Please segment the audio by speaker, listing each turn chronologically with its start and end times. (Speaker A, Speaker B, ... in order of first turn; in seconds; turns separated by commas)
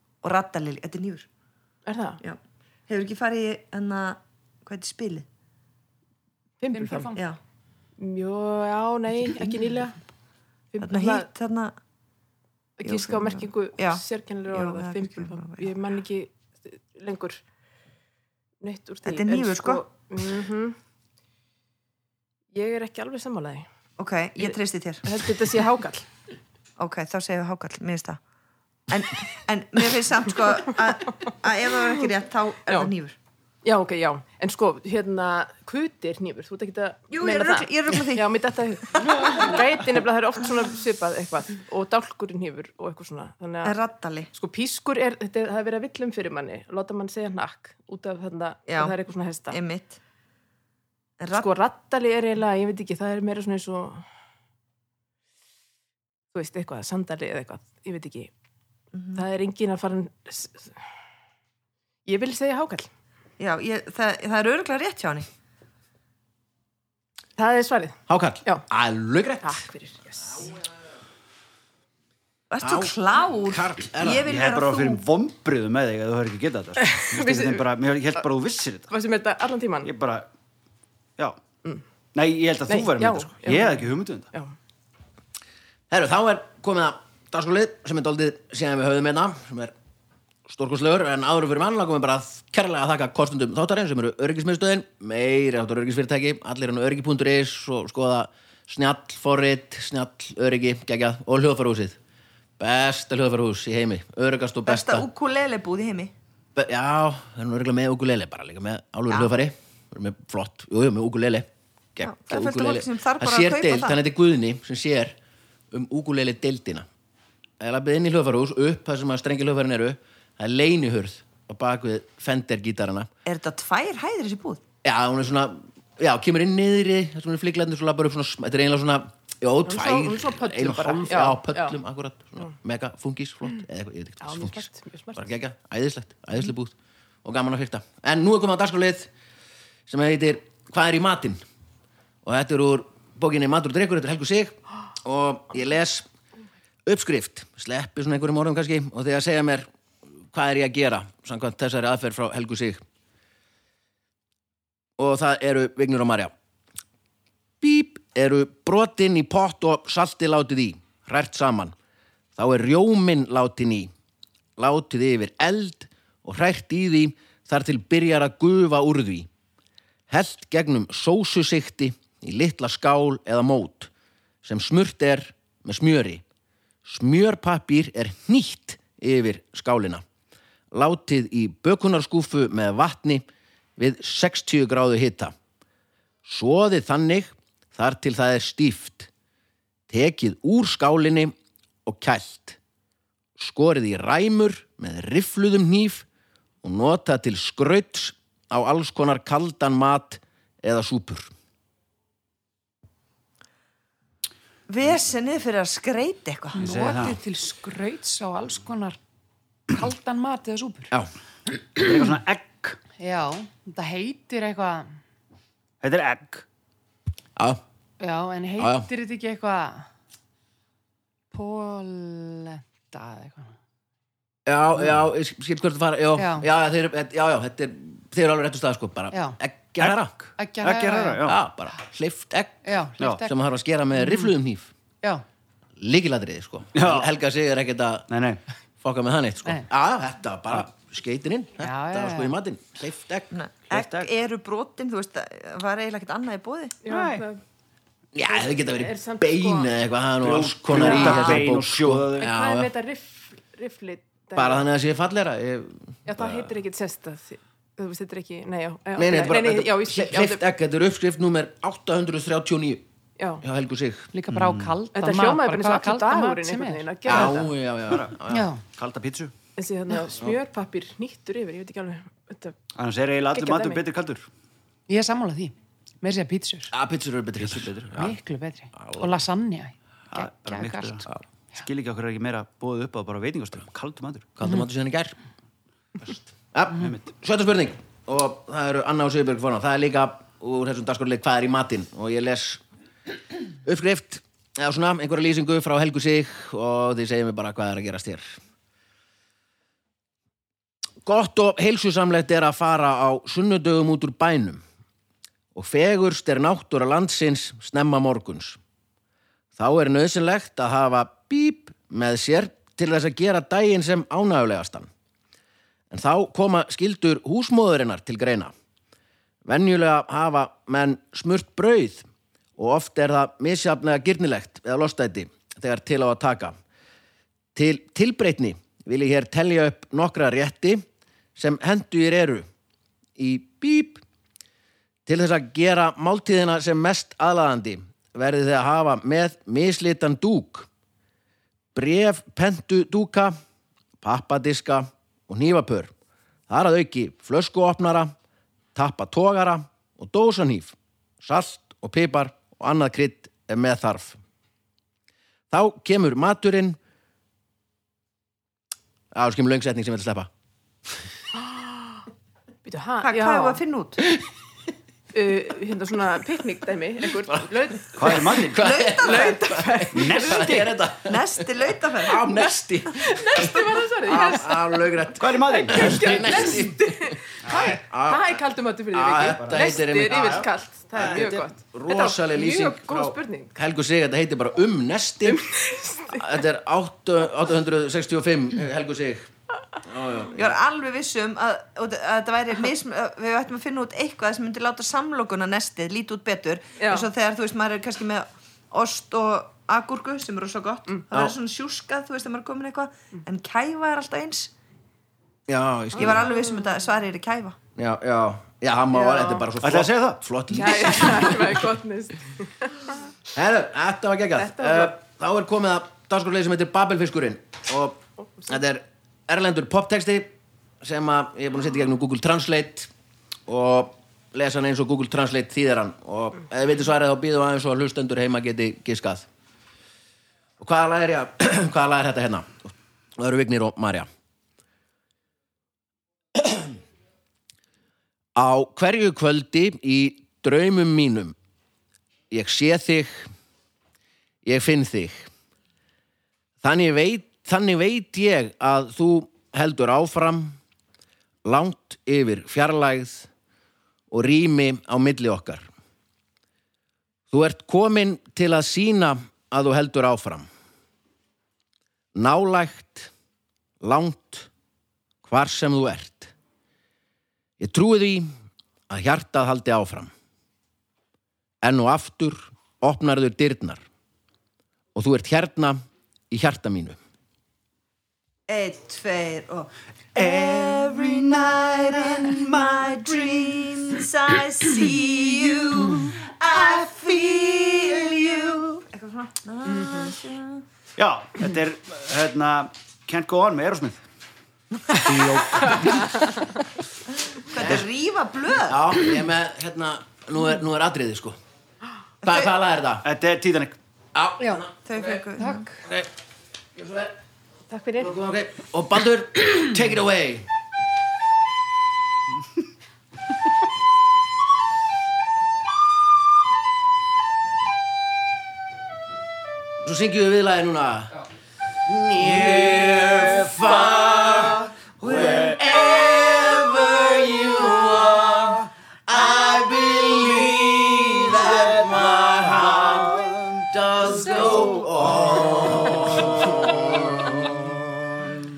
Speaker A: 0.2-1.3, Speaker B: 1.9-2.2, Speaker A: 2.2-5.3, Speaker B: 6.6-7.1, Speaker C: 6.7-7.2, Speaker A: 7.1-7.4, Speaker B: 8.0-10.0, Speaker B: 10.7-11.2, Speaker A: 10.8-11.8, Speaker B: 12.8-17.4, Speaker A: 12.8-15.7, Speaker B: 18.6-20.8, Speaker A: 19.1-19.8, Speaker B: 22.5-23.6, Speaker A: 24.0-25.1, Speaker B: 25.0-26.1, Speaker A: 26.8-28.2, Speaker A: 28.9-33.1, Speaker B: 33.6-43.7, Speaker A: 37.1-38.4, Speaker A: 39.0-39.5, Speaker A: 43.6-44.3, Speaker B: 44.3-49.6, Speaker A: 48.7-49.0, Speaker A: 49.5-50.0, Speaker A: 51.2-51.5, Speaker B: 51.3-54.0, Speaker B: 56.3-58.3, Speaker A: 58.9-59.2, Speaker B: 59.1-60.7, Speaker B: 62.0-62.9, Speaker A: 63.4-65.2, Speaker B: 67.4-68.6, Speaker D: 68.1-69.6, Speaker B: 69.4-70.5, Speaker A: 72.5-75.0, Speaker D: 72.6-74.4, Speaker E: 74.2-78.9, Speaker B: 76.8-77.6, Speaker B: 78.9-79.9, Speaker E: 79.8-80.3, Speaker E: 82.1-84.3, Speaker B: 82.7-84.5, Speaker D: 85.9-89.7, Speaker D: 90.5-102.0, Speaker D: 102.6-105.1, Speaker A: 104.7-106.1, Speaker D: 106.5-115.2, Speaker A: 112.0-114.0, Speaker D: 115.7-116.8, Speaker D: 117.6-123.1, Speaker A: 123.2-124.6, Speaker D: 124.8-139.1, Speaker B: 129.7-131.7, Speaker B: 134.2-135.2, Speaker D: 139.9-141.4, Speaker D: 142.2-146.1, Speaker D: 146.8-149.7, Speaker D: 150.3-152.8, Speaker D: 155.0-156.3, Speaker D: 157.6-161.7, Speaker D: 162.3-163.9, Speaker D: 164.6-169.3, Speaker D: 170.1-173.9, Speaker D: 174.4-176.2, Speaker D: 176.8-180.0, Speaker D: 180.7-183.2, Speaker D: 183.8-185.3, Speaker D: 186.2-189.1, Speaker D: 189.9-191.3, Speaker D: 191.8-192.6, Speaker D: 193.4-196.0, Speaker D: 196.6-201.3, Speaker A: 204.7-206.6, Speaker E: 206.6-207.2, Speaker C: 206.6-209.0, Speaker C: 209.7-210.9, Speaker E: 211.8-212.8, Speaker C: 213.0-214.9, Speaker E: 215.8-216.4, Speaker C: 218.0-219.9, Speaker D: 218.6-218.9, Speaker C: 221.3-223.5, Speaker D: 224.4-230.1, Speaker C: 226.2-226.4, Speaker C: 229.1-229.4, Speaker E: 229.8-231.4, Speaker C: 230.4-231.2, Speaker D: 231.2-232.6, Speaker C: 232.6-233.3, Speaker E: 233.0-233.2, Speaker D: 233.2-234.7, Speaker C: 233.9-234.3, Speaker D: 235.8-238.1, Speaker E: 236.7-237.1, Speaker E: 238.1-238.4, Speaker D: 238.8-243.3, Speaker C: 241.6-242.3, Speaker A: 243.3-246.8, Speaker E: 243.7-244.1, Speaker B: 246.8-247.4, Speaker E: 246.9-247.3, Speaker D: 248.1-252.7, Speaker B: 248.3-249.7, Speaker E: 250.2-252.3, Speaker B: 250.8-251.4, Speaker B: 252.2-254.7, Speaker D: 254.3-256.5, Speaker B: 256.1-260.4, Speaker D: 258.9-262.8, Speaker D: 263.4-264.1, Speaker C: 264.1-266.9, Speaker E: 264.3-264.8, Speaker B: 264.9-267.5, Speaker D: 267.1-268.5, Speaker E: 267.9-268.1, Speaker C: 268.3-268.6, Speaker E: 268.7-269.3, Speaker B: 269.6-272.6, Speaker E: 272.7-274.3, Speaker B: 273.3-273.8, Speaker C: 274.9-276.7, Speaker D: 276.7-278.1, Speaker E: 277.4-277.8, Speaker C: 277.9-281.1, Speaker D: 278.7-279.1, Speaker E: 280.1-284.3, Speaker D: 284.4-285.1, Speaker D: 286.5-292.6, Speaker E: 286.8-287.1, Speaker D: 293.6-298.4, Speaker D: 301.0-304.6, Speaker D: 305.5-308.6, Speaker D: 309.6-314.9, Speaker D: 315.9-318.5, Speaker D: 319.4-322.1, Speaker D: 322.6-326.5, Speaker D: 327.5-330.8, Speaker D: 331.4-332.5, Speaker D: 333.2-334.0, Speaker D: 335.1-340.7, Speaker D: 341.7-343.4, Speaker D: 344.0-345.9, Speaker D: 346.5-348.1, Speaker D: 348.7-354.2, Speaker D: 355.5-356.8, Speaker D: 359.1-360.3, Speaker B: 362.6-363.6, Speaker A: 363.0-364.0, Speaker B: 365.1-368.4, Speaker E: 367.9-368.6, Speaker D: 368.4-371.4, Speaker A: 368.6-369.4, Speaker B: 368.9-370.5, Speaker E: 369.9-370.7, Speaker A: 371.0-372.4, Speaker D: 372.0-385.4, Speaker B: 372.9-374.9, Speaker E: 375.2-376.4, Speaker B: 375.4-383.5, Speaker E: 377.4-377.8, Speaker E: 379.3-380.5, Speaker B: 385.2-386.3, Speaker D: 386.1-390.6, Speaker A: 390.3-404.5, Speaker B: 396.8-397.1, Speaker D: 405.5-406.3, Speaker A: 405.9-407.6, Speaker D: 407.8-411.5, Speaker B: 408.9-409.5, Speaker E: 409.6-410.2, Speaker B: 410.5-412.9, Speaker D: 413.3-422.9, Speaker B: 414.4-414.9, Speaker D: 423.5-429.2, Speaker D: 430.6-434.1, Speaker D: 436.4-436.8, Speaker D: 438.3-441.3, Speaker D: 442.3-443.3, Speaker D: 444.4-445.3, Speaker D: 446.6-450.6, Speaker D: 451.4-453.3, Speaker D: 454.1-455.7, Speaker D: 457.3-460.5, Speaker D: 462.1-463.1, Speaker D: 463.8-464.5, Speaker D: 465.2-466.3, Speaker D: 467.6-468.3, Speaker D: 468.9-470.1, Speaker D: 471.6-473.8, Speaker D: 474.9-475.8, Speaker D: 476.3-477.0, Speaker A: 478.5-490.6, Speaker E: 480.1-483.8, Speaker E: 491.0-494.0, Speaker E: 494.9-496.1, Speaker A: 497.2-499.0, Speaker D: 498.7-501.4, Speaker A: 502.2-502.5, Speaker D: 502.2-503.1, Speaker E: 503.0-503.8, Speaker D: 504.1-505.2, Speaker A: 504.8-505.7, Speaker C: 505.4-505.7, Speaker D: 505.8-506.1, Speaker D: 506.8-507.1, Speaker B: 507.7-508.1, Speaker D: 508.0-510.5, Speaker D: 519.8-521.1, Speaker D: 521.9-538.3, Speaker A: 534.1-534.8